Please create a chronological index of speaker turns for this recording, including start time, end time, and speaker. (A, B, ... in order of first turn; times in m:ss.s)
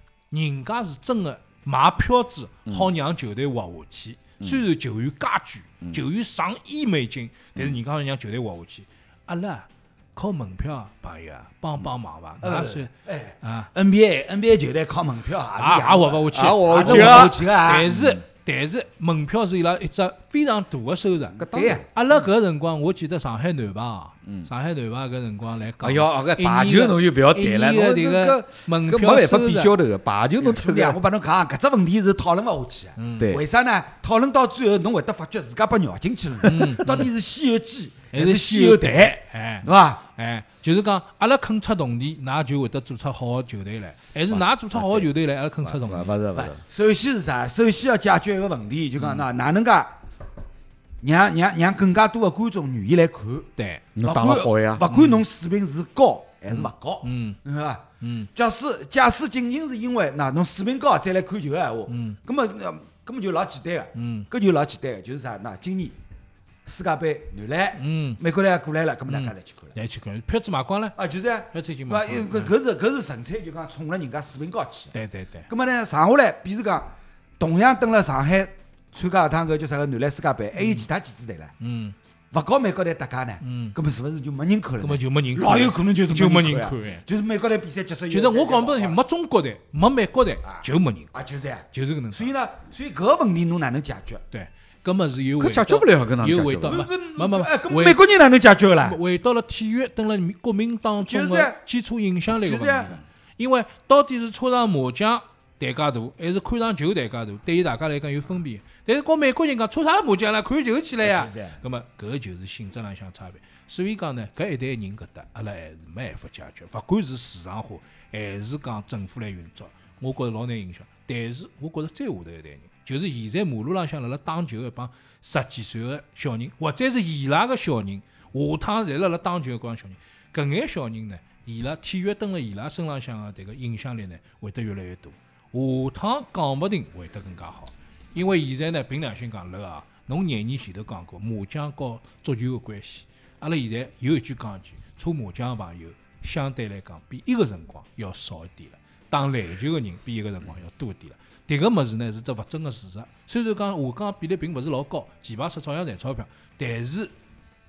0:00.3-0:12.9 A
0:02.7-0:02.9 B
0:12.4-0:17.9 C
0:13.4-0:13.7 A
0:15.6-0:29.7 A
0:16.3-0:18.2 B
0:21.4-0:21.9 C
0:21.4-0:21.8 B
0:25.8-0:31.0 B
0:30.4-0:40.0 C
0:33.0-0:33.3 A
0:36.4-0:37.1 A
0:38.1-0:46.1 A
0:44.3-0:45.1 B
0:45.6-0:46.6 B
0:46.3-0:49.9 C
0:51.0-0:53.5 C
0:53.6-0:53.8 A
0:54.0-0:54.9 B
0:54.0-0:57.8 C
0:54.9-0:55.2 A
0:56.5-0:57.4 A
0:58.0-0:58.3 A
0:58.4-1:06.0 C
1:01.9-1:02.2 A
1:04.0-1:04.3 A
1:06.7-1:09.8 C
1:07.8-1:08.2 A
1:09.1-1:11.0 A
1:11.0-1:15.0 C
1:11.5-1:12.5 A
1:14.9-1:15.5 A
1:15.5-1:21.5 C
1:20.6-1:20.9 A
1:21.6-1:22.0 A
1:22.3-1:29.0 C
1:23.4-1:23.8 A
1:24.8-1:27.0 A
1:28.1-1:31.1 A
1:30.4-1:34.2 C
1:31.7-1:32.3 A
1:34.3-1:38.0 A
1:35.4-1:36.8 B
1:36.7-1:39.0 C
1:38.8-2:37.1 A
1:41.0-1:41.6 C
1:42.4-1:43.0 C
1:51.0-1:51.6 C